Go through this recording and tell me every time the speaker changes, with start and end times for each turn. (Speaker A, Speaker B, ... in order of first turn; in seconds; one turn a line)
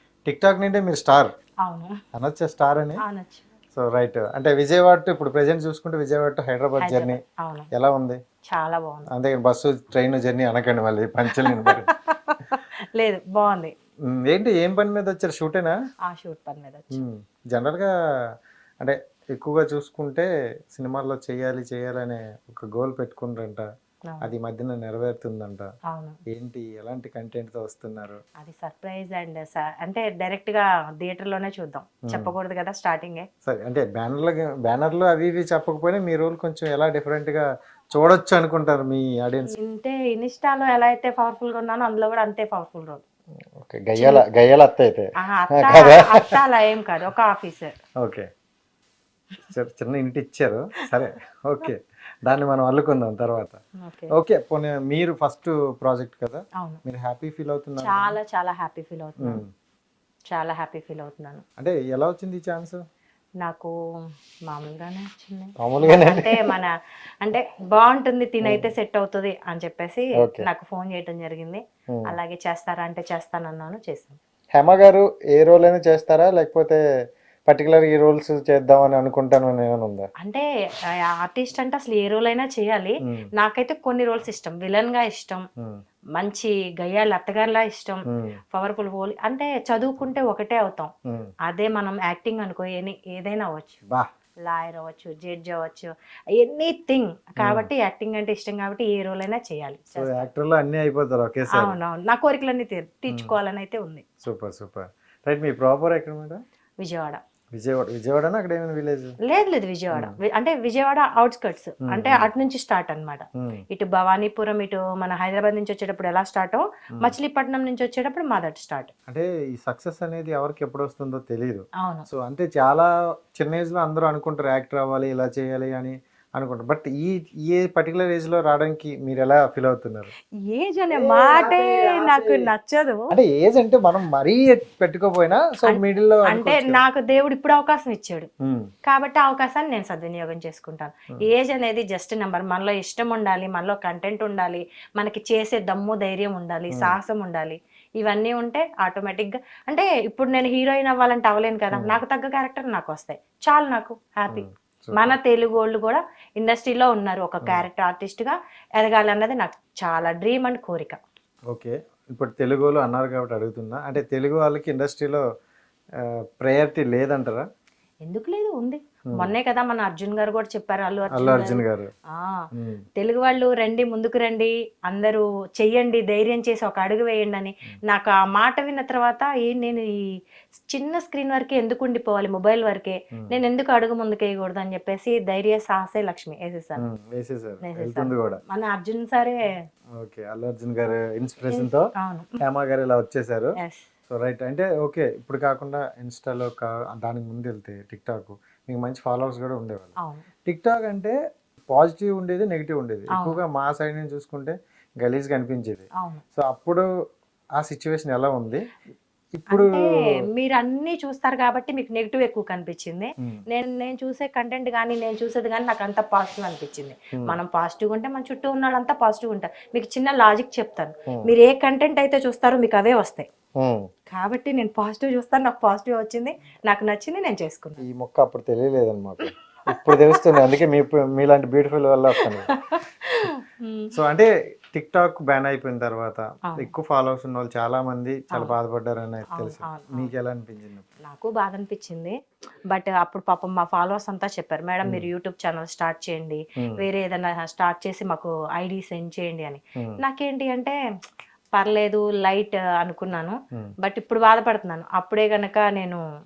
Speaker A: 0.2-1.3
Speaker B: 1.6-2.0
Speaker A: 2.1-3.0
Speaker B: 3.0-3.5
Speaker A: 3.7-7.2
Speaker B: 6.8-7.7
Speaker A: 7.7-8.2
Speaker B: 8.5-9.1
Speaker A: 9.1-11.9
Speaker B: 11.3-13.7
Speaker A: 14.1-15.8
Speaker B: 16.0-17.0
Speaker A: 16.9-17.9
Speaker A: 18.8-23.6
Speaker A: 24.2-25.7
Speaker B: 25.9-26.2
Speaker A: 26.3-28.2
Speaker B: 28.4-33.3
Speaker A: 32.1-32.3
Speaker A: 33.4-39.5
Speaker B: 39.5-43.0
Speaker A: 43.6-46.4
Speaker B: 44.0-44.2
Speaker B: 45.2-47.7
Speaker A: 48.0-48.3
Speaker A: 49.5-53.6
Speaker B: 53.8-54.1
Speaker A: 54.1-58.1
Speaker B: 57.8-59.4
Speaker A: 59.2-59.5
Speaker B: 60.3-61.4
Speaker A: 61.6-62.8
Speaker B: 63.4-63.7
Speaker B: 64.5-74.2
Speaker A: 65.6-66.5
Speaker A: 70.2-70.5
Speaker A: 74.5-76.8
Speaker A: 77.5-80.1
Speaker B: 80.2-80.4
Speaker B: 81.0-85.4
Speaker B: 86.2-90.9
Speaker A: 88.1-88.3
Speaker B: 91.5-93.8
Speaker B: 94.4-100.3
Speaker A: 97.4-97.7
Speaker A: 100.0-101.8
Speaker B: 101.5-104.0
Speaker A: 104.2-106.4
Speaker B: 106.8-107.2
Speaker A: 107.5-109.1
Speaker B: 109.2-118.9
Speaker A: 111.9-112.3
Speaker A: 113.4-113.6
Speaker A: 119.1-130.1
Speaker B: 121.8-122.1
Speaker B: 130.5-133.1
Speaker A: 130.9-132.5
Speaker A: 133.1-136.8
Speaker B: 135.7-138.3
Speaker A: 138.4-138.7
Speaker B: 138.8-161.0
Speaker A: 146.7-146.9
Speaker A: 151.7-152.0
Speaker A: 154.3-155.1
Speaker A: 161.5-165.2
Speaker A: 166.0-167.4
Speaker B: 168.1-186.8
Speaker A: 171.1-171.9
Speaker A: 172.5-172.8
Speaker A: 186.8-188.4
Speaker B: 187.6-189.5
Speaker A: 190.0-191.9
Speaker B: 191.5-192.4
Speaker A: 192.4-193.6
Speaker B: 193.6-193.9
Speaker A: 194.1-199.9
Speaker B: 200.0-200.2
Speaker A: 200.4-201.1
Speaker A: 201.7-206.9
Speaker B: 203.1-203.4
Speaker B: 205.9-206.2
Speaker A: 207.6-208.7
Speaker A: 209.3-209.8
Speaker B: 209.5-223.3
Speaker A: 223.6-223.9
Speaker B: 224.1-227.8
Speaker A: 227.8-232.5
Speaker B: 229.9-230.2
Speaker B: 232.2-233.9
Speaker A: 233.9-240.8
Speaker B: 239.3-240.1
Speaker B: 241.0-242.1
Speaker B: 242.7-250.8
Speaker B: 251.5-256.0